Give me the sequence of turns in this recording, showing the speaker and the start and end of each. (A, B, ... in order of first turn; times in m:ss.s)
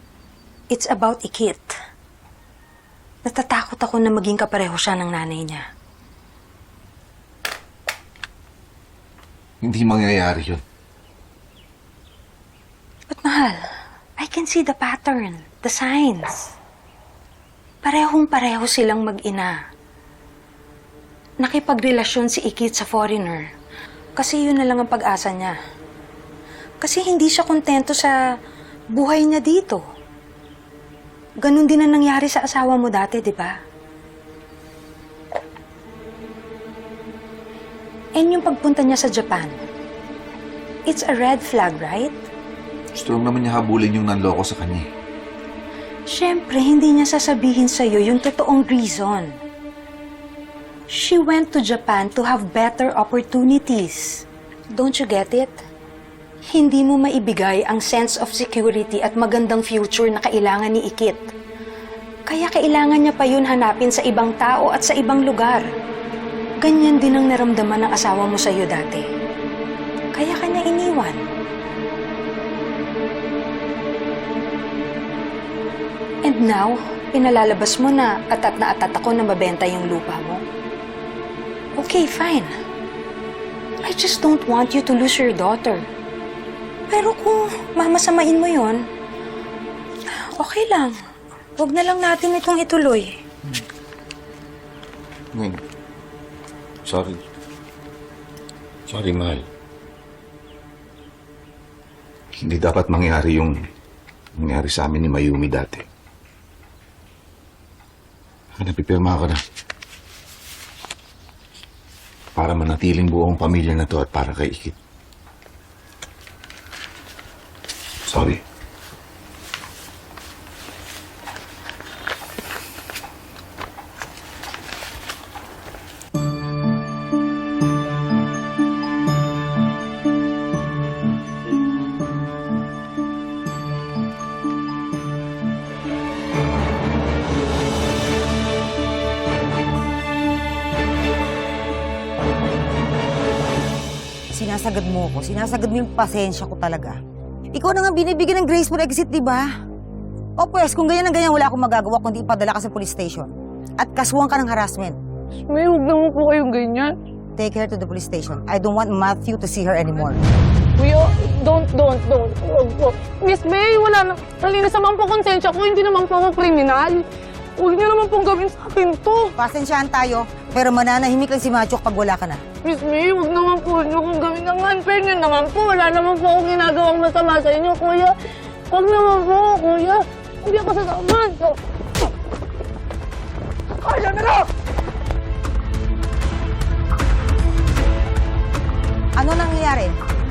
0:00.7-0:01.7 A
0:03.2-0:05.6 A
0:09.6-0:10.6 B
0:13.1-0:13.6 A
0:14.2-0:16.5 A
0:17.8-0:19.6 A
0:21.4-0:23.4 A
0:24.2-0:25.6 A
0:26.8-0:28.1 A
0:28.9-0:29.8 A
0:31.4-0:33.6 A
0:38.2-0:39.6 A
0:40.9-0:42.2 A
0:42.9-0:44.9 B
0:46.1-0:49.3 A
0:50.9-0:55.6 A
0:56.5-1:01.3 A
1:02.3-1:05.7 A
1:06.6-1:09.0 A
1:10.1-1:11.2 A
1:16.2-1:20.4 A
1:21.8-1:22.5 A
1:23.8-1:25.8 A
1:26.9-1:28.8 A
1:30.1-1:31.0 A
1:31.6-1:33.2 A
1:35.3-1:35.6 C
1:36.8-1:37.2 C
1:38.9-1:39.5 C
1:42.3-1:43.6 C
1:44.4-1:45.8 C
1:48.6-1:49.4 C
1:52.4-1:54.8 C
1:58.1-1:58.4 C
2:24.3-2:27.0 D
2:27.5-2:29.5 D
2:30.4-2:35.0 D
2:35.4-2:37.0 E
2:37.4-2:40.2 D
2:40.8-2:47.0 E
2:47.6-2:49.3 E
2:49.4-2:52.4 D
2:52.6-2:58.1 E
2:58.7-3:01.6 E
3:03.8-3:04.5 E
3:09.2-3:09.9 D